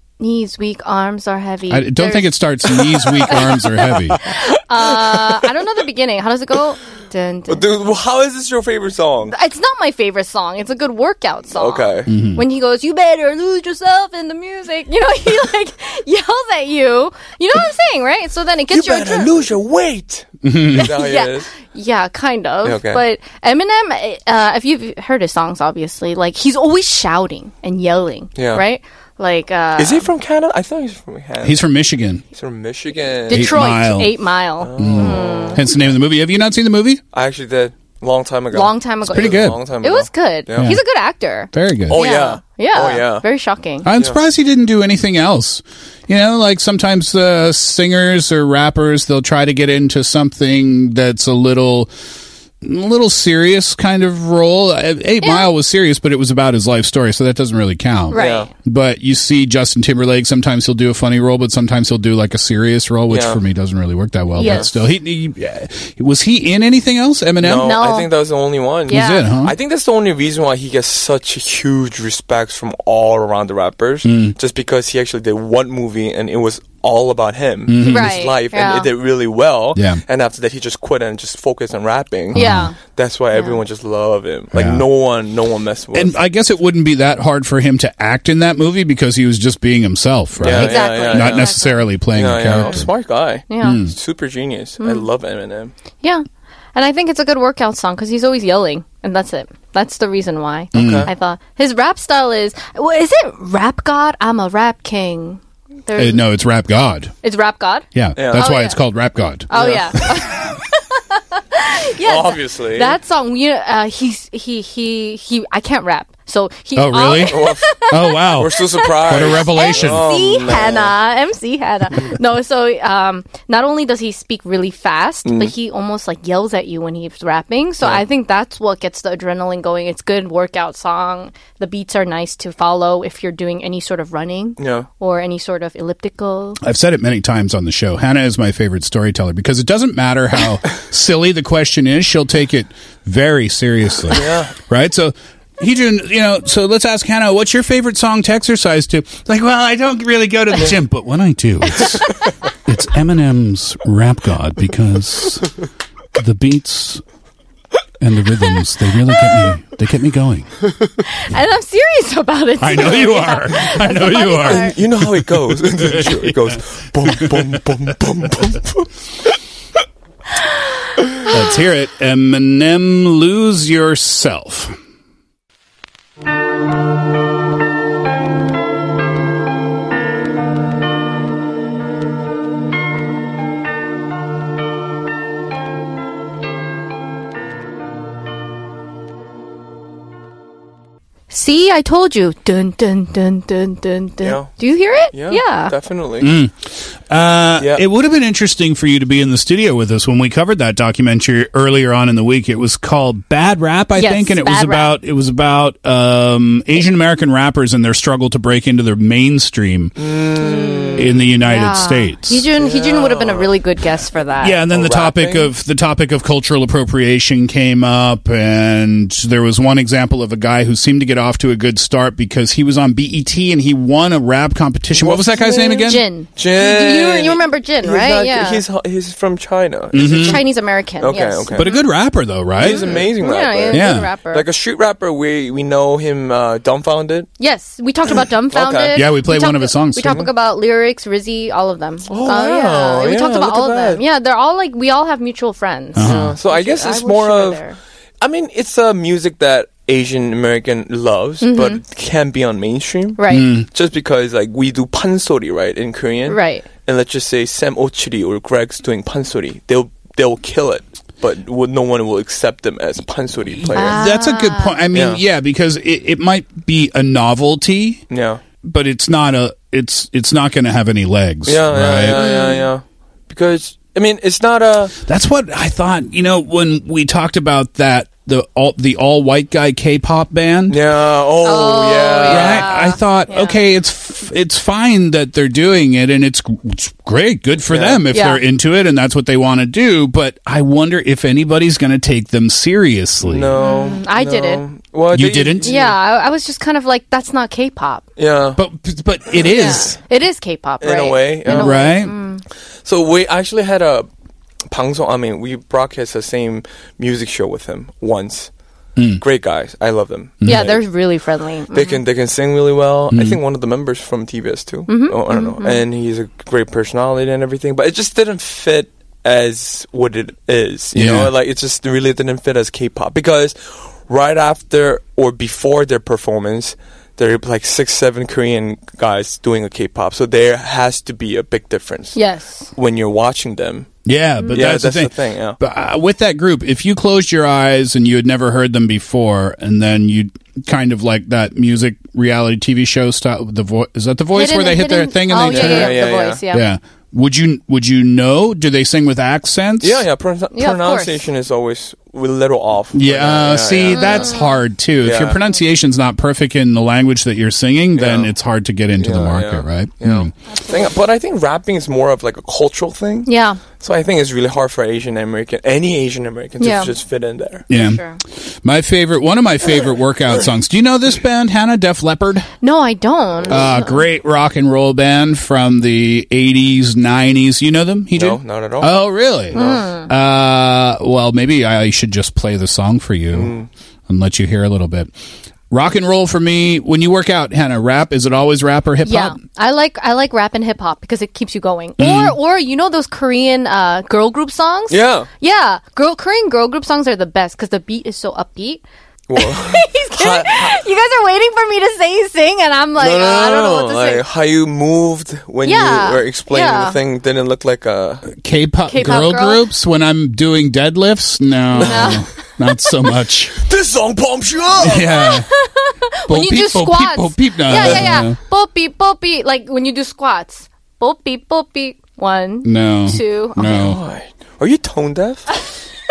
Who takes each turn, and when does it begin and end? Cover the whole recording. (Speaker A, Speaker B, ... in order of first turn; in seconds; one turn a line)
Speaker A: 0.2-2.4
Speaker B: 1.7-4.2
Speaker A: 4.2-7.6
Speaker C: 7.5-9.3
Speaker A: 9.3-19.3
Speaker C: 11.5-12.1
Speaker B: 12.1-12.4
Speaker C: 18.7-21.5
Speaker B: 20.4-20.9
Speaker A: 20.8-30.1
Speaker C: 22.6-23.0
Speaker C: 28.4-28.6
Speaker C: 29.8-31.6
Speaker B: 31.4-32.2
Speaker C: 32.3-33.7
Speaker A: 33.3-35.6
Speaker B: 33.3-34.2
Speaker C: 34.6-35.8
Speaker B: 34.8-37.0
Speaker C: 37.1-40.8
Speaker A: 38.5-43.9
Speaker B: 39.0-39.6
Speaker B: 41.5-42.0
Speaker C: 41.9-43.2
Speaker B: 43.8-51.9
Speaker B: 52.6-67.8
Speaker A: 55.2-55.5
Speaker A: 58.1-58.5
Speaker C: 58.1-58.5
Speaker C: 63.1-63.4
Speaker A: 64.4-64.7
Speaker C: 64.4-64.7
Speaker C: 67.4-86.1
Speaker A: 67.6-68.1
Speaker A: 68.9-69.2
Speaker B: 68.9-69.5
Speaker B: 74.0-74.3
Speaker B: 77.7-78.2
Speaker A: 77.8-78.9
Speaker B: 79.7-80.0
Speaker B: 82.3-82.7
Speaker A: 82.3-82.8
Speaker A: 83.3-83.6
Speaker B: 84.5-84.8
Speaker B: 85.9-92.9
Speaker C: 90.4-95.7
Speaker A: 90.4-91.9
Speaker A: 93.5-93.8
Speaker B: 93.6-93.9
Speaker A: 96.7-106.3
Speaker B: 100.7-101.1
Speaker C: 100.7-101.1
Speaker B: 106.0-107.1
Speaker A: 107.2-108.8
Speaker B: 107.9-110.0
Speaker C: 108.2-108.5
Speaker A: 109.5-136.6
Speaker C: 109.5-110.1
Speaker C: 112.0-113.0
Speaker B: 116.7-120.1
Speaker C: 117.3-120.9
Speaker C: 125.2-125.5
Speaker C: 134.6-134.9
Speaker B: 136.6-155.5
Speaker C: 144.1-144.5
Speaker B: 156.2-157.0
Speaker B: 158.0-160.6
Speaker A: 161.1-164.8
Speaker B: 162.6-167.6
Speaker C: 164.4-168.9
Speaker B: 171.3-174.8
Speaker A: 191.3-195.7
Speaker C: 194.2-194.5
Speaker C: 195.1-196.3
Speaker B: 196.2-209.9
Speaker C: 197.6-197.8
Speaker A: 203.9-204.9
Speaker C: 210.0-211.1
Speaker A: 210.4-214.6
Speaker B: 210.9-212.4
Speaker C: 212.6-213.5
Speaker B: 214.4-226.0
Speaker C: 214.7-215.5
Speaker C: 224.9-231.7
Speaker A: 225.8-228.6
Speaker B: 229.9-230.4
Speaker A: 230.0-231.8
Speaker B: 231.6-233.0
Speaker C: 232.6-237.3
Speaker A: 232.6-234.5
Speaker B: 233.7-234.1
Speaker A: 237.4-247.8
Speaker C: 238.5-239.0
Speaker B: 238.9-240.2
Speaker C: 240.0-240.3
Speaker C: 242.1-244.0
Speaker B: 245.9-246.3
Speaker C: 246.0-247.6
Speaker C: 248.2-264.0
Speaker A: 251.4-251.8
Speaker A: 253.2-253.5
Speaker B: 253.3-253.7
Speaker A: 256.3-256.6
Speaker B: 263.6-268.0
Speaker A: 263.7-264.8
Speaker C: 264.9-265.2
Speaker C: 268.1-268.4
Speaker B: 268.6-272.4
Speaker C: 271.4-274.9
Speaker B: 275.0-280.8
Speaker C: 280.7-282.7
Speaker A: 281.4-283.6
Speaker B: 282.2-293.5
Speaker C: 287.7-288.0
Speaker A: 288.1-288.4
Speaker C: 293.2-295.9
Speaker A: 293.6-294.6
Speaker B: 295.1-295.7
Speaker A: 295.6-298.0
Speaker C: 298.2-298.6
Speaker B: 298.6-300.0
Speaker A: 299.5-302.4
Speaker C: 300.8-302.0
Speaker B: 301.4-302.1
Speaker C: 302.8-304.1
Speaker C: 304.7-308.5
Speaker B: 309.0-309.2
Speaker C: 309.2-310.8
Speaker B: 310.4-310.7
Speaker A: 310.4-312.0
Speaker C: 311.7-332.2
Speaker B: 313.1-313.4
Speaker A: 314.9-315.8
Speaker B: 320.9-321.3
Speaker A: 332.1-332.7
Speaker C: 332.7-333.9
Speaker B: 334.1-346.0
Speaker C: 334.5-335.6
Speaker A: 344.3-346.7
Speaker C: 345.4-346.4
Speaker B: 346.5-350.0
Speaker C: 349.8-354.3
Speaker A: 350.5-351.2
Speaker B: 352.9-360.3
Speaker A: 353.9-354.5
Speaker C: 355.0-355.4
Speaker C: 357.9-358.3
Speaker C: 359.0-367.6
Speaker A: 360.5-360.9
Speaker A: 363.2-363.6
Speaker A: 366.6-366.9
Speaker B: 367.7-368.0
Speaker A: 367.7-368.2
Speaker B: 368.6-372.5
Speaker A: 372.6-374.0
Speaker B: 373.5-383.5
Speaker C: 378.1-379.9
Speaker A: 379.5-380.1
Speaker C: 383.3-383.7
Speaker B: 384.1-385.1
Speaker B: 385.7-389.4
Speaker A: 389.0-398.8
Speaker B: 392.0-392.4
Speaker C: 394.9-395.3
Speaker C: 399.3-400.8
Speaker A: 399.4-404.2
Speaker C: 403.0-408.3
Speaker A: 405.6-407.0
Speaker B: 408.3-413.6
Speaker A: 408.9-409.6
Speaker A: 411.8-412.3
Speaker C: 411.8-412.2
Speaker C: 413.6-415.1
Speaker B: 414.8-415.5
Speaker A: 415.1-423.6
Speaker B: 416.3-418.4
Speaker C: 417.7-418.1
Speaker B: 422.6-424.0
Speaker C: 423.6-425.5